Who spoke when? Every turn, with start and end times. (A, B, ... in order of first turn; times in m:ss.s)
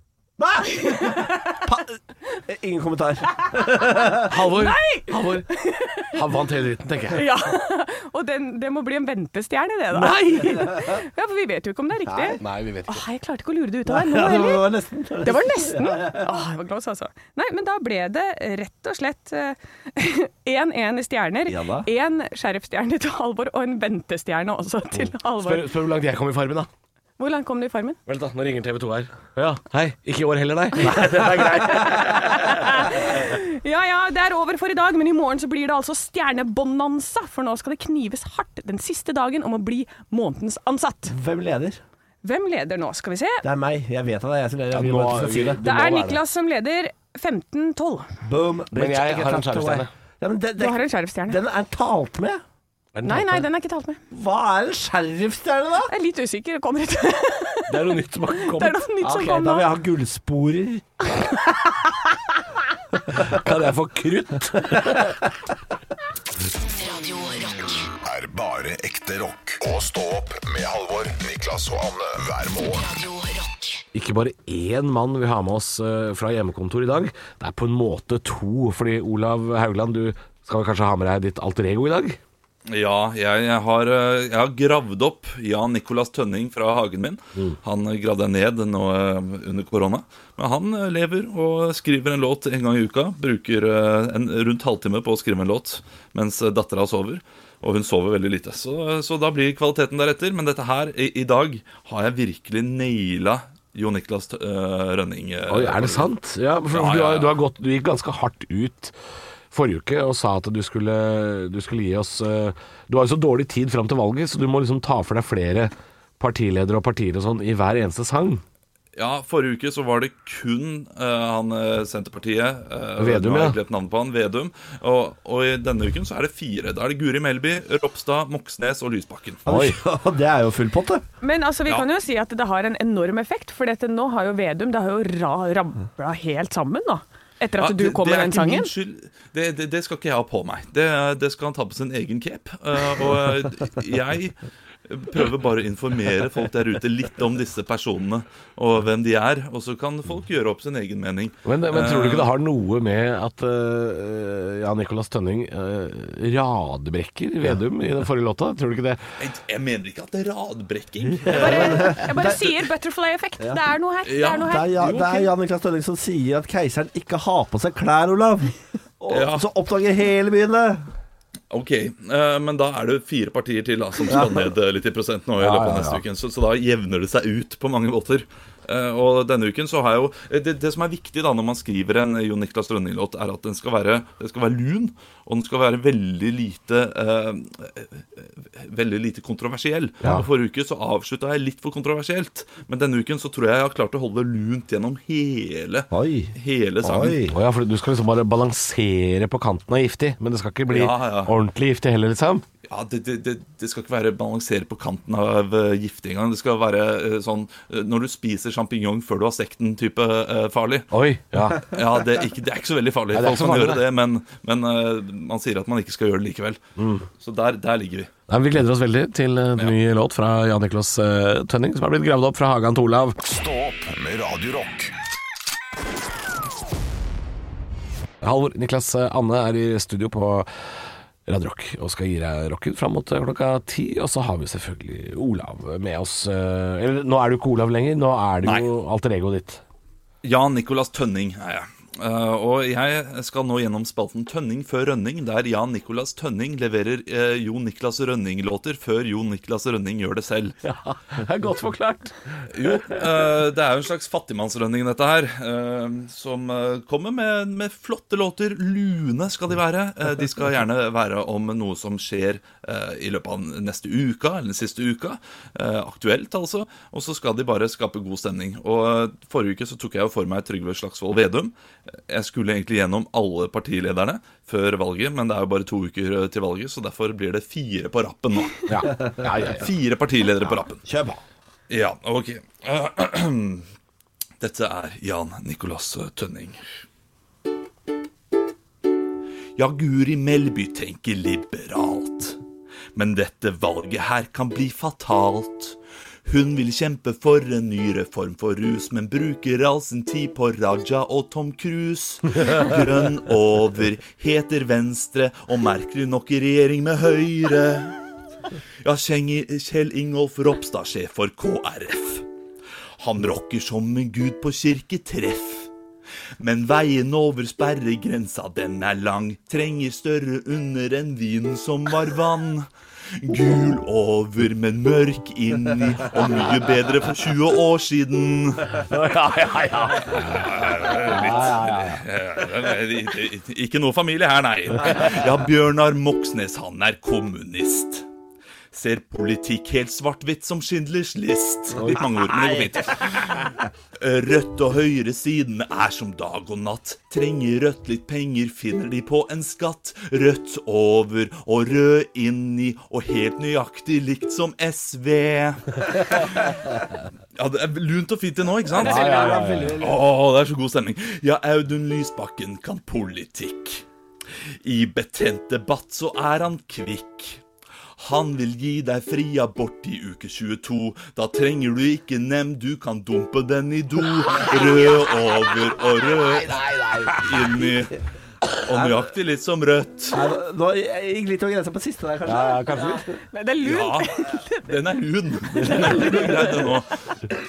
0:00.4-0:04.4 A
0:00.8-0:01.4 B
0:04.2-0:05.5 C
0:04.5-0:06.2 B
0:06.1-0:07.3 C
0:07.1-0:14.7 B
0:10.0-0:10.7 C
0:10.2-0:10.9 A
0:12.1-0:12.4 A
0:12.4-0:13.0 C
0:13.9-0:16.3 A
0:15.2-0:25.7 B
0:21.5-0:21.9 A
0:25.0-0:26.7 C
0:27.2-0:28.0 B
0:28.1-0:33.1 C
0:31.8-0:41.1 B
0:41.1-0:41.8 A
0:42.2-0:43.4 B
0:43.4-0:45.6 A
0:44.7-0:46.2 C
0:45.6-0:48.1 B
0:48.2-0:52.4 A
0:48.7-0:49.9 C
0:50.6-0:51.4 B
0:53.0-0:53.5 C
0:53.0-0:54.0 B
0:54.1-0:55.9 A
0:55.9-0:59.7 B
0:57.7-0:58.8 C
0:59.0-1:00.9 A
1:03.2-1:05.2 C
1:06.6-1:07.9 D
1:08.0-1:12.9 E
1:12.7-1:13.8 D
1:13.9-1:22.2 C
1:22.7-1:46.1 F
1:45.5-1:49.0 C
1:46.7-1:47.4 F
1:49.5-1:58.4 C
1:59.0-2:09.4 F
2:03.0-2:03.6 C
2:09.5-2:09.8 C
2:09.5-2:11.0 A
2:11.2-2:18.7 B
2:17.6-2:32.3 F
2:31.4-2:39.0 C
2:39.2-2:42.0 F
2:41.1-2:42.6 A
2:41.3-2:45.2 B
2:44.0-2:45.2 F
2:44.4-2:50.9 A
2:49.1-2:49.5 F
2:51.5-3:17.2 F
2:55.4-2:56.0 C
3:15.9-3:17.4 A
3:17.3-3:22.4 C
3:20.7-3:21.3 F
3:22.7-3:30.9 F
3:30.9-3:31.7 C
3:31.7-3:36.6 F
3:33.1-3:33.8 C
3:36.8-3:37.1 C
3:37.2-3:38.1 F
3:38.3-3:43.2 C
3:43.2-3:44.9 E
3:48.2-3:50.5 C
3:51.3-3:59.6 C
4:00.2-4:10.6 F
4:10.6-4:13.0 C
4:12.5-4:40.8 F
4:38.7-4:39.7 C
4:40.8-4:41.2 A
4:41.7-4:43.6 F
4:44.4-4:46.6 F
4:49.6-4:52.4 F
4:53.0-5:08.0 F
5:08.8-5:12.3 F
5:13.0-5:15.7 F
5:16.4-5:28.9 F
5:29.1-5:30.5 C
5:30.0-5:38.0 F
5:31.0-5:32.0 C
5:38.7-5:56.8 F
5:41.8-5:42.0 C
5:41.8-5:43.1 A
5:57.4-6:03.8 F
5:58.7-6:00.0 A
5:58.8-5:59.8 C
6:04.6-6:07.4 F
6:08.0-6:18.0 F
6:16.0-6:17.4 C
6:18.6-6:20.2 F
6:20.1-6:23.1 A
6:22.2-6:23.2 C
6:23.3-6:24.7 B
6:23.6-6:26.9 F
6:25.5-6:26.7 A